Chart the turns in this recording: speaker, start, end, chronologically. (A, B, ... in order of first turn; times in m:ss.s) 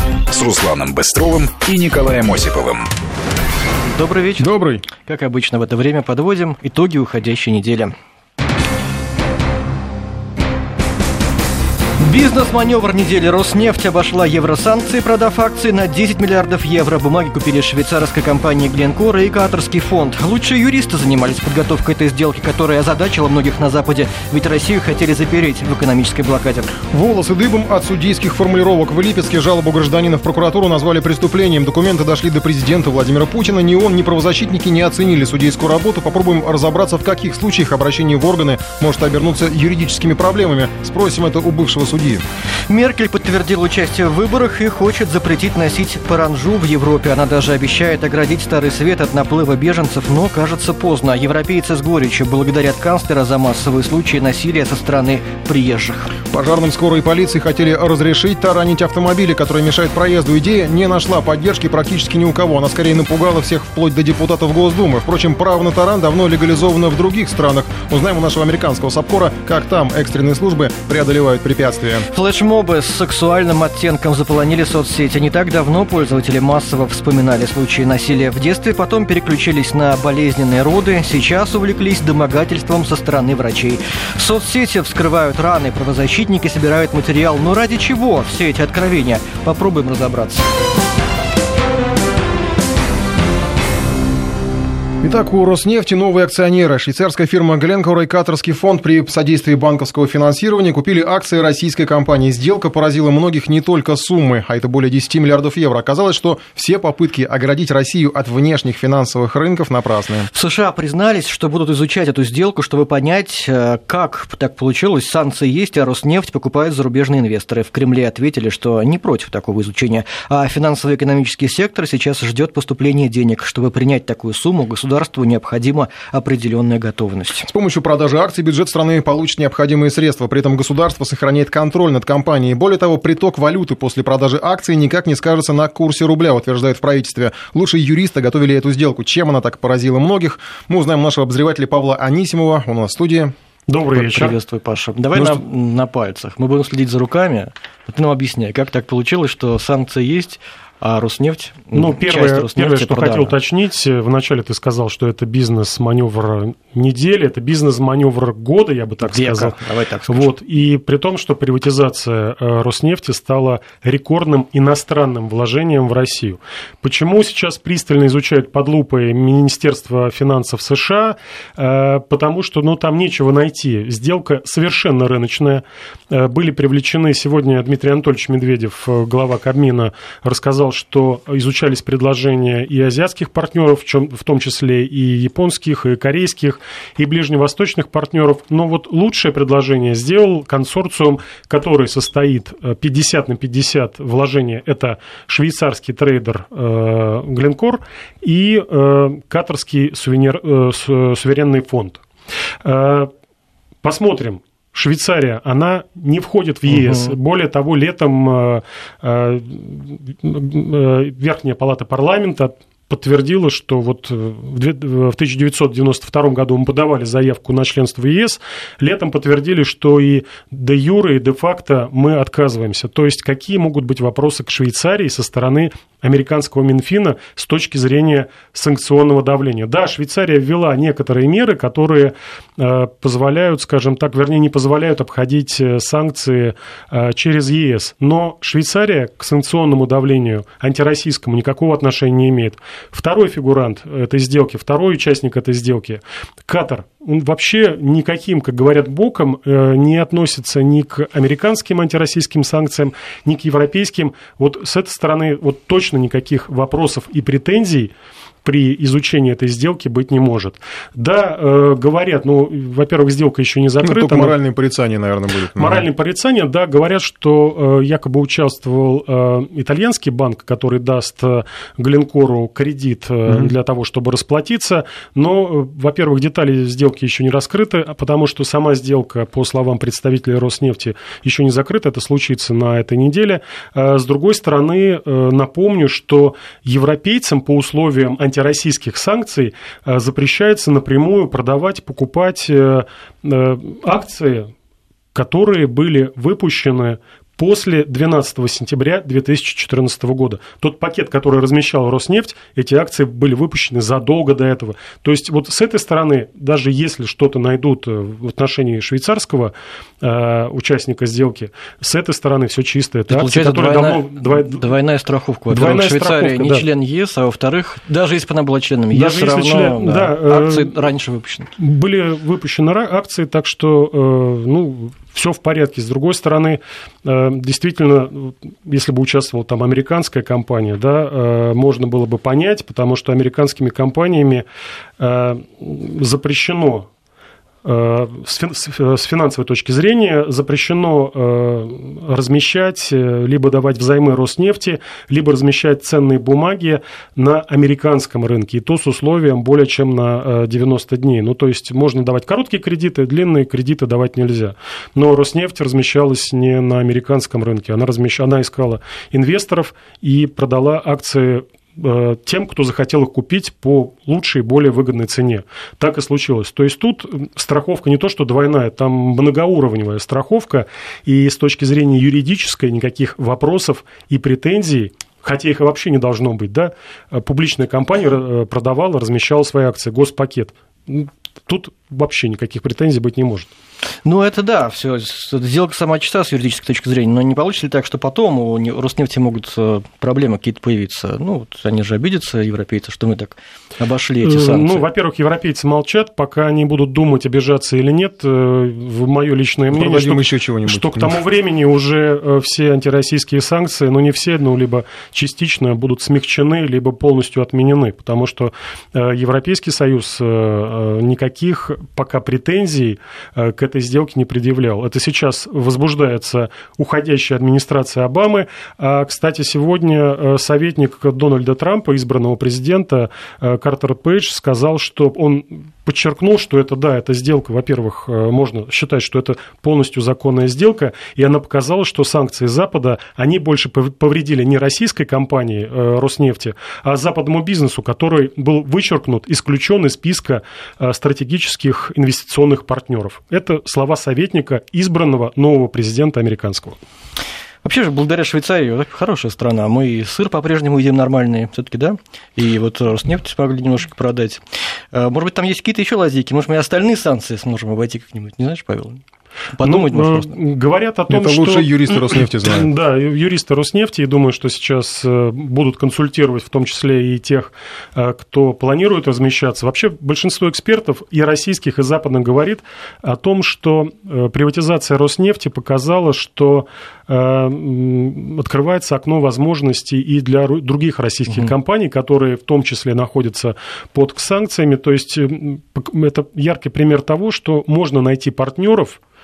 0:00.3-0:02.9 A
0:03.9-0:08.0 B
0:04.4-0:04.8 C
0:12.0-0:26.7 B
0:26.9-0:42.2 C
0:42.7-0:56.1 B
0:56.3-1:12.1 C
1:12.1-1:30.5 B
1:35.0-1:50.3 C
1:50.3-2:07.5 B
2:07.5-2:23.3 C
2:23.7-2:24.4 D
2:23.9-2:33.4 B
2:25.2-2:25.4 D
2:31.7-3:22.0 D
2:39.0-2:40.3 B
3:22.6-3:23.1 D
3:23.8-4:17.9 D
3:26.7-3:27.1 B
4:18.4-4:24.4 D
4:23.8-4:25.9 C
4:25.6-4:54.5 D
4:33.3-4:33.6 C
4:55.1-5:14.6 D
5:13.1-5:21.5 B
5:15.5-5:16.7 D
5:18.9-5:20.7 D
5:21.6-5:34.4 D
5:35.0-5:36.9 D
5:37.6-6:23.5 D
6:24.0-6:34.9 B
6:34.2-7:26.8 D
6:39.7-6:41.2 C
7:27.6-7:34.4 B
7:34.9-7:39.0 B
7:39.5-7:40.4 B
7:39.6-8:09.0 D
7:41.1-7:42.7 C